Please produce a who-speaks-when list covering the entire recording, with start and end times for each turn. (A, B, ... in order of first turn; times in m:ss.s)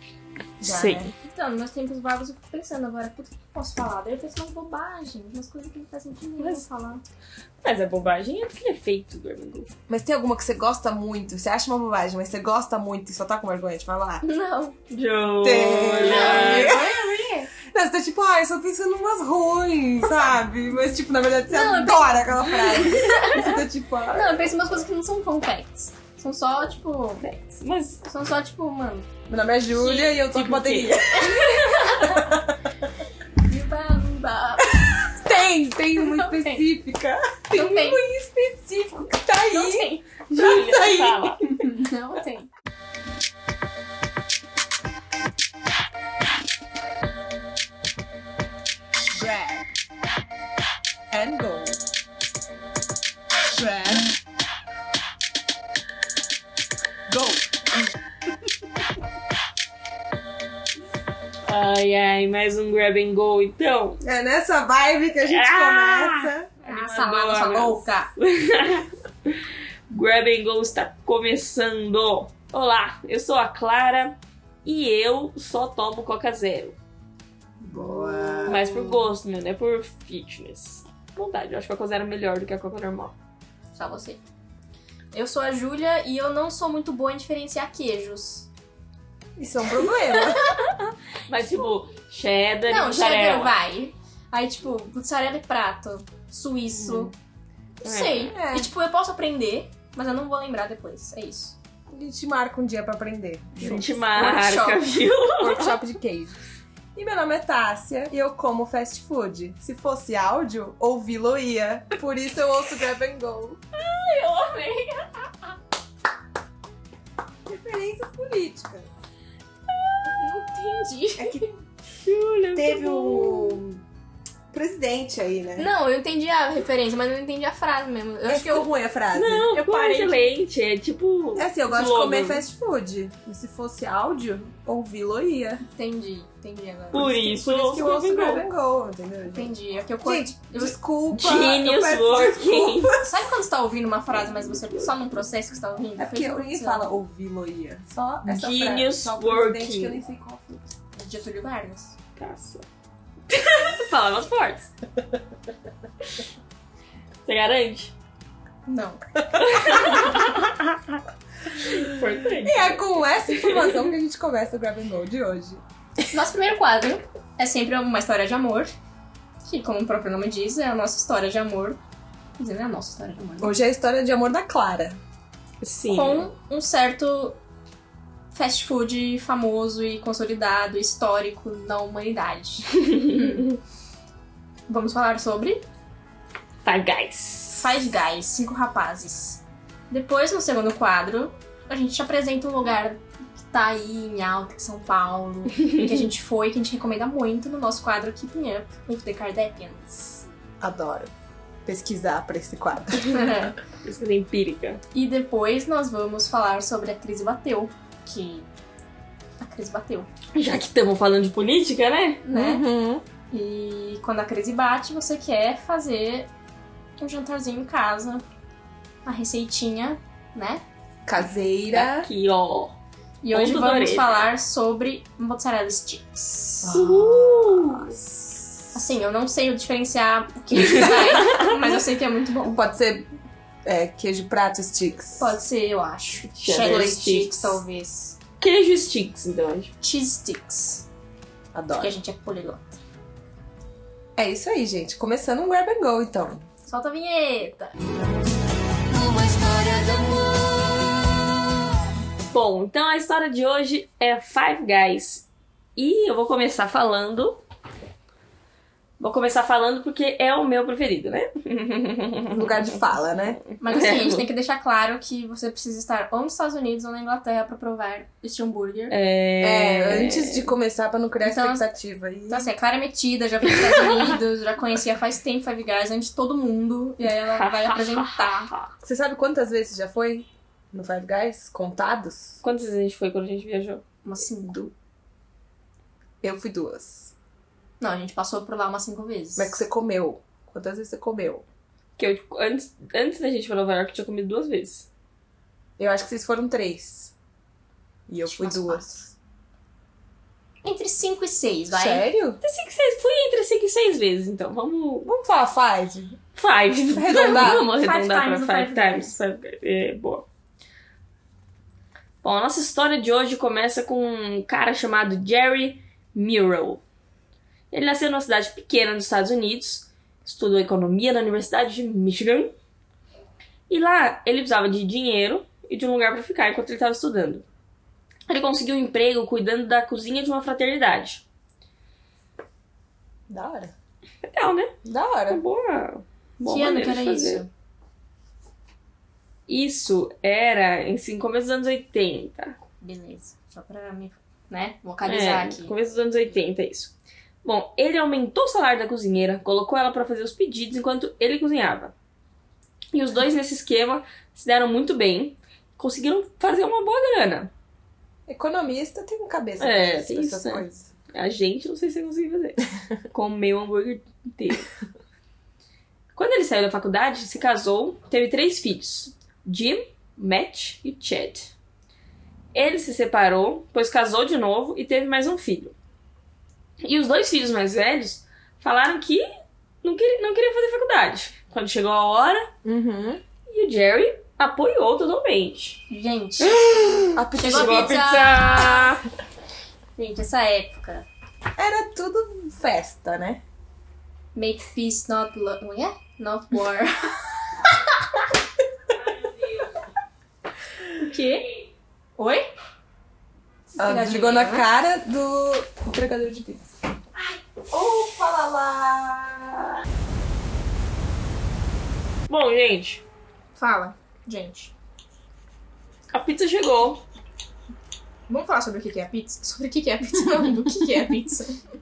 0:00.6-0:01.1 A
0:00.6-0:01.1 B
0:01.2-0:07.0 C
0:07.6-0:09.7 A
0:09.9-0:14.2 B
0:14.2-0:14.8 C
0:14.9-0:16.8 A
0:15.4-0:17.0 B
0:16.0-0:17.5 C
0:17.6-0:24.5 B
0:21.5-0:23.5 C
0:24.1-0:27.2 C
0:27.2-0:28.0 A
0:28.0-0:29.1 C
0:29.3-0:31.5 B
0:30.0-0:32.0 A
0:31.1-0:32.4 C
0:32.0-0:32.6 B
0:33.4-0:35.1 C
0:34.8-0:41.8 B
0:36.0-0:36.6 C
0:37.5-0:38.0 C
0:39.4-0:40.1 C
0:40.3-0:41.5 A
0:41.6-0:42.5 C
0:49.1-0:49.7 B
0:51.1-0:51.8 B
0:53.5-0:54.2 B
0:57.1-0:57.9 B
1:01.5-1:04.0 A
1:04.0-1:06.5 B
1:05.2-1:16.8 A
1:06.6-1:08.1 C
1:17.6-1:19.0 B
1:18.4-1:23.2 A
1:23.7-1:24.2 C
1:25.1-1:28.5 C
1:29.4-1:30.5 B
1:30.4-1:33.6 A
1:32.7-1:37.1 C
1:36.8-1:37.1 B
1:37.8-1:41.6 C
1:37.8-1:38.3 A
1:38.3-1:38.7 B
1:41.9-1:44.0 B
1:43.6-1:45.8 A
1:44.1-1:44.9 C
1:45.4-1:46.4 B
1:47.0-1:53.6 B
1:53.9-1:54.6 A
1:54.2-1:55.1 C
1:57.5-1:58.9 B
2:00.0-2:01.5 C
2:01.2-2:01.6 B
2:02.0-2:03.6 A
2:02.6-2:03.8 B
2:04.5-2:05.7 B
2:05.6-2:08.7 C
2:08.3-2:09.6 B
2:09.1-2:12.5 A
2:09.5-2:10.3 C
2:11.4-2:15.6 B
2:15.8-2:17.1 C
2:16.9-2:18.4 A
2:16.9-2:19.5 B
2:19.3-2:20.8 C
2:20.0-2:23.3 B
2:21.1-2:22.9 A
2:23.0-2:26.9 C
2:24.2-2:24.9 A
2:26.0-2:30.7 B
2:28.2-2:30.0 A
2:31.0-2:32.0 C
2:32.2-2:32.6 A
2:33.3-2:34.7 A
2:37.3-2:37.9 A
2:38.7-2:39.0 C
2:39.4-2:40.9 A
2:41.5-2:43.9 A
2:42.3-2:45.6 B
2:46.1-2:48.7 C
2:49.4-2:51.8 C
2:52.4-2:53.6 C
2:53.4-2:55.0 B
2:55.6-2:56.3 A
2:55.9-2:57.4 C
2:58.3-3:03.5 C
3:04.7-3:05.6 C
3:06.6-3:07.9 A
3:07.5-3:20.2 C
3:20.6-3:21.1 B
3:21.6-3:23.2 B
3:23.0-3:23.6 C
3:23.8-3:24.8 A
3:24.9-3:28.5 C
3:29.4-3:30.1 C
3:30.3-3:32.2 A
3:32.2-3:32.6 C
3:32.3-3:33.0 B
3:33.3-3:36.3 C
3:37.0-3:38.2 C
3:39.0-3:40.6 C
3:41.1-3:42.1 B
3:41.7-3:42.8 A
3:43.2-3:46.8 C
3:43.3-3:44.2 A
3:46.6-3:48.0 B
3:46.7-3:48.0 A
3:48.7-3:52.6 C
3:50.6-3:51.6 A
3:52.4-3:53.1 B
3:53.6-3:55.4 B
3:55.2-3:58.2 C
3:56.3-3:57.6 A
3:56.6-3:57.0 B
3:58.4-3:59.7 A
3:59.8-4:00.9 C
4:01.5-4:02.0 B
4:01.8-4:02.8 C
4:04.2-4:06.4 B
4:06.7-4:07.8 C
4:09.5-4:09.9 B
4:12.3-4:15.2 A
4:15.8-4:17.4 A
4:19.0-4:22.6 A
4:22.3-4:23.4 B
4:23.5-4:24.3 A
4:23.6-4:29.0 C
4:28.9-4:30.5 A
4:29.4-4:32.5 B
4:31.2-4:31.7 C
4:32.3-4:38.5 C
4:33.7-4:34.2 A
4:37.3-4:38.7 A
4:38.8-4:42.4 B
4:42.4-4:43.8 A
4:44.0-4:44.7 C
4:46.2-4:47.1 B
4:47.8-4:49.6 C
4:49.4-4:51.4 B
4:52.0-4:54.9 A
4:55.8-4:57.1 B
4:58.1-4:59.1 B
4:58.2-4:59.0 C
5:00.6-5:02.1 C
5:01.7-5:02.4 B
5:02.4-5:05.1 A
5:05.0-5:06.2 B
5:06.4-5:10.2 A
5:06.7-5:07.6 B
5:07.1-5:09.1 C
5:12.2-5:16.8 A
5:17.7-5:22.5 A
5:23.7-5:27.4 A
5:28.3-5:31.2 A
5:33.3-5:33.7 B
5:34.3-5:34.8 A
5:34.8-5:35.4 B
5:35.3-5:37.4 A
5:36.4-5:37.5 C
5:39.5-5:42.6 A
5:42.8-5:45.7 C
5:45.0-5:51.9 A
5:52.9-5:57.5 A
5:58.3-6:00.9 B
5:59.6-6:04.7 A
6:06.2-6:11.5 A
6:12.5-6:15.7 A
6:16.8-6:19.3 A
6:19.8-6:22.5 A
6:22.6-6:23.2 B
6:23.5-6:25.8 A
6:25.9-6:26.7 C
6:26.4-6:29.0 A
6:27.2-6:28.0 B
6:27.4-6:29.0 C
6:30.0-6:31.1 C
6:31.6-6:33.4 B
6:34.4-6:37.2 C
6:38.9-6:39.7 A
6:41.0-6:41.5 C
6:42.2-6:42.5 C
6:43.8-6:44.7 C
6:43.8-6:46.7 B
6:47.2-6:49.8 B
6:52.3-6:53.0 A
6:53.6-6:54.7 C
6:56.1-6:57.0 A
6:58.3-7:01.6 C